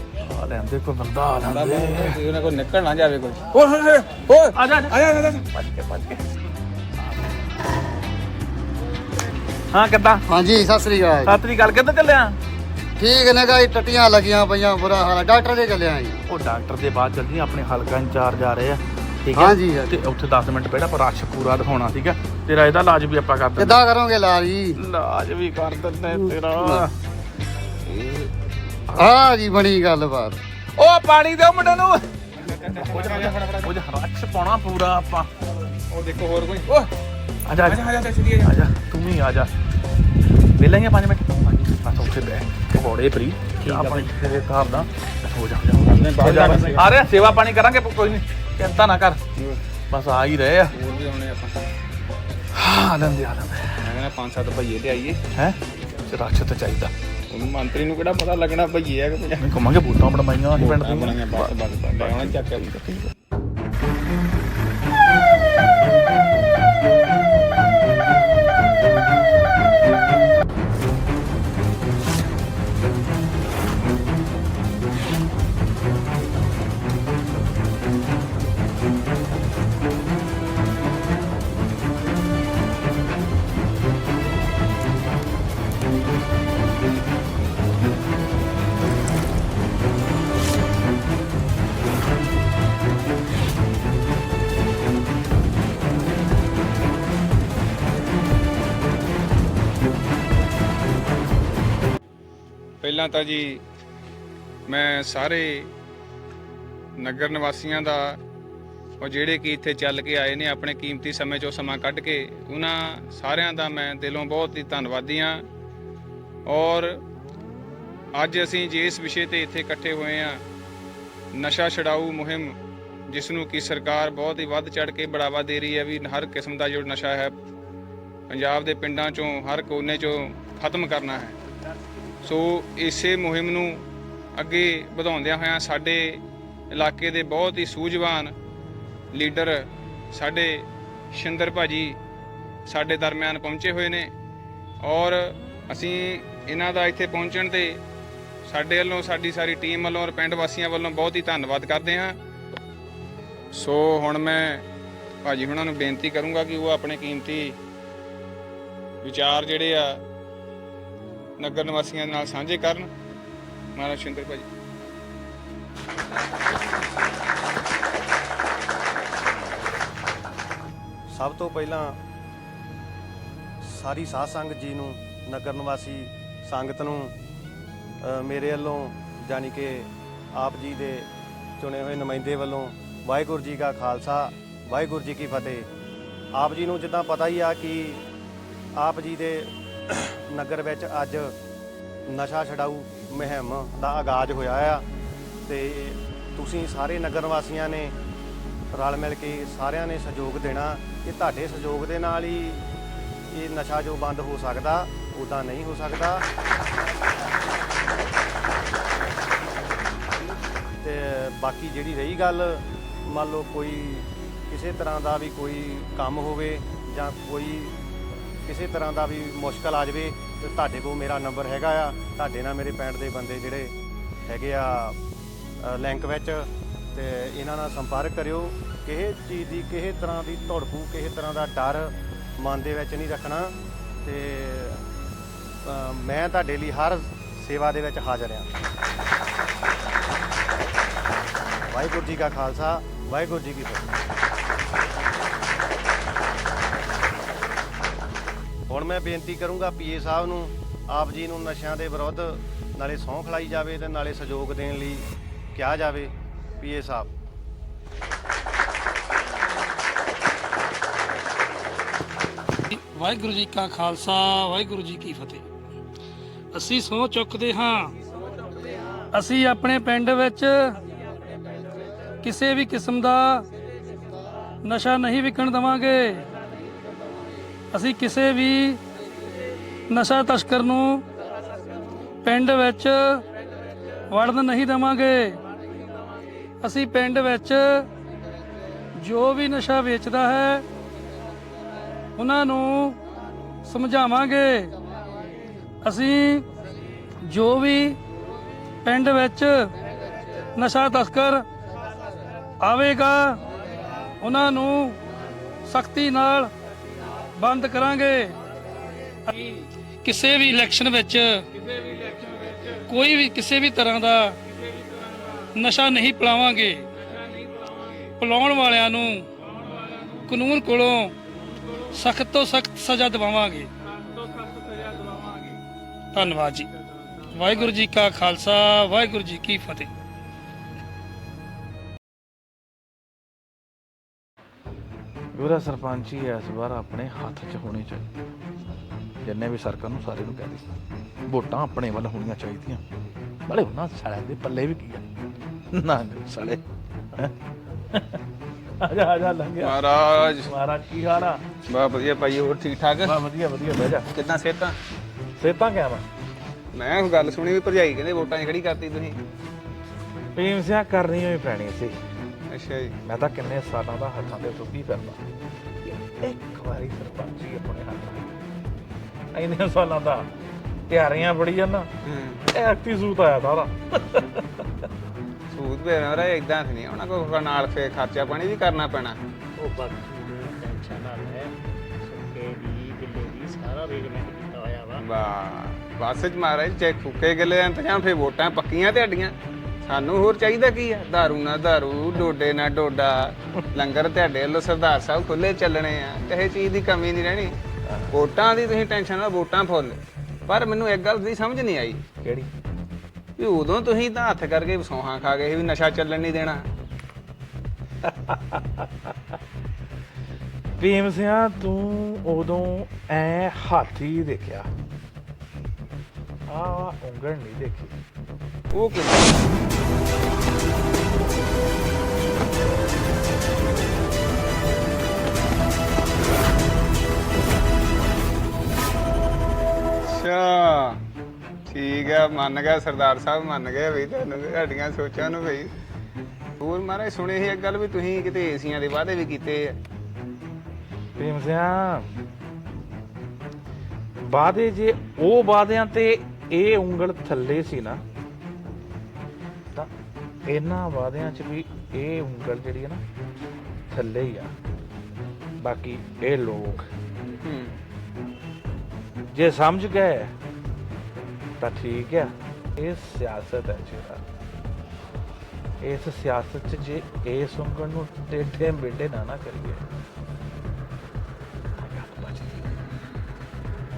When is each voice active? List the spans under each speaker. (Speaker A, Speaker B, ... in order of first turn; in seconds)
Speaker A: 0.2-2.2, 3.5-6.2, 9.7-10.3, 11.2-12.4, 16.3-23.8, 24.8-26.9, 30.8-32.0, 32.7-35.3, 37.5-39.5, 40.6-49.2, 49.9-50.8, 52.5-53.9, 55.3-56.9, 59.4-63.1, 335.3-338.1, 339.2-340.6, 341.3-342.8, 343.5-345.0, 345.7-346.6, 347.9-348.2, 348.8-349.8, 350.4-351.4, 353.0-354.1, 355.4-356.0, 360.4-362.0, 363.1-365.2, 365.8-368.3, 369.3-370.3, 370.9-371.9, 372.5-374.6, 397.9-398.1, 402.2-402.5, 408.0-409.1, 410.8-414.7, 416.5-417.9, 441.2-442.1, 444.2-448.0, 450.5-453.0, 453.9-454.5, 455.6-456.9, 459.3-460.3, 461.6-464.2, 465.8-469.8, 471.8-472.8
Speaker B: 1.5-3.4, 32.3-33.7, 35.9-36.8, 37.7-38.5, 45.8-47.0, 49.4-49.6, 50.7-51.7, 53.8-55.2, 57.3-59.6, 60.6-62.7, 102.8-103.6, 104.7-105.7, 107.0-108.2, 109.0-115.4, 116.5-117.0, 118.2-120.4, 121.3-122.5, 123.1-127.3, 128.3-131.4, 132.2-133.8, 134.4-138.3, 139.1-142.0, 142.7-144.1, 144.8-147.8, 148.4-152.2, 153.5-154.6, 155.2-157.6, 159.0-160.0, 161.4-162.9, 163.8-164.5, 349.6-350.5, 351.7-353.1, 354.1-354.8, 356.7-359.2, 362.5-362.9, 372.0-372.4, 375.5-379.2, 385.0-397.6, 398.1-402.0, 403.4-406.6, 418.7-419.5, 430.0-431.0, 431.7-435.7, 436.6-439.8, 457.4-457.8
Speaker C: 10.3-11.3, 13.0-16.1, 19.4-19.9, 23.6-24.7, 29.0-30.4
Speaker D: 43.8-44.0, 379.6-385.0
Speaker E: 171.1-172.0, 173.6-177.1, 178.0-185.7, 186.3-188.0, 188.8-191.3, 192.1-194.9, 195.4-197.9, 198.7-202.6, 203.3-206.2, 210.8-217.8, 218.4-223.7, 224.2-225.0, 225.6-234.8, 235.6-238.5, 241.7-243.9, 248.7-257.1
Speaker F: 262.7-265.4, 266.5-267.9, 269.1-270.8, 272.2-273.4, 274.6-276.3, 277.7-278.8, 279.9-281.0, 282.2-283.2, 284.1-285.4, 286.6-287.9, 289.0-290.6, 292.2-293.0, 293.6-294.7, 295.8-296.4, 297.3-298.0, 298.8-299.7, 300.6-301.4, 302.6-303.4, 304.2-305.0, 305.6-306.5, 307.4-308.4, 309.3-314.4, 315.4-316.9, 318.0-319.3, 320.1-321.1, 321.9-323.7, 325.1-325.4, 326.1-326.7, 327.3-329.9